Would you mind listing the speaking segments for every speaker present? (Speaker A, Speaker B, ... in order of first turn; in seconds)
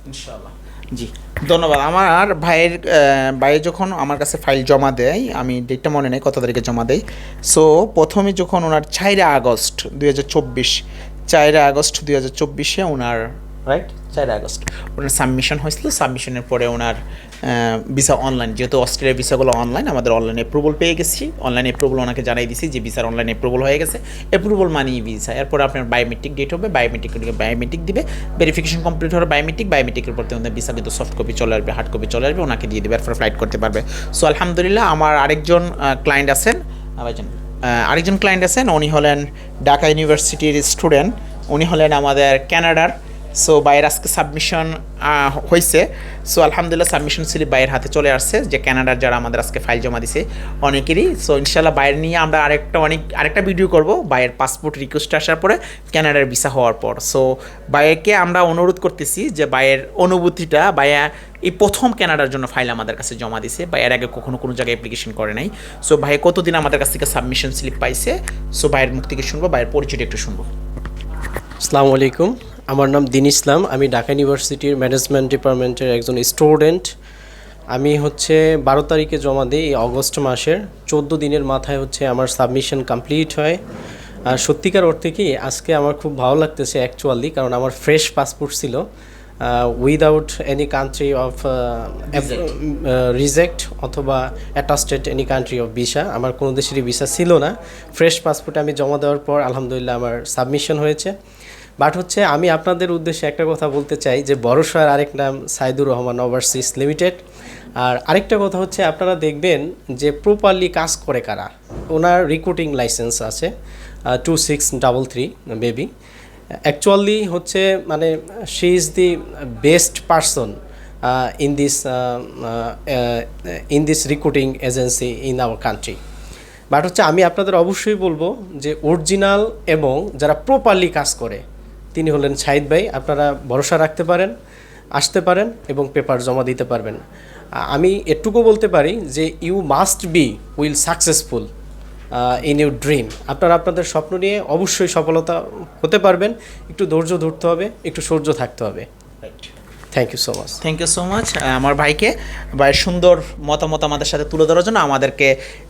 Speaker A: 0.1-10.8, 11.3-70.5, 92.1-92.5, 149.2-149.5, 150.6-155.3
Speaker B: 71.6-76.9, 77.7-83.6, 84.3-88.8, 89.4-101.1, 101.8-107.2, 107.8-113.5, 114.1-115.9, 116.7-120.5, 121.1-126.0, 126.7-131.4, 131.9-134.3, 135.0-137.0, 137.7-141.5, 142.2-148.9, 149.9-150.6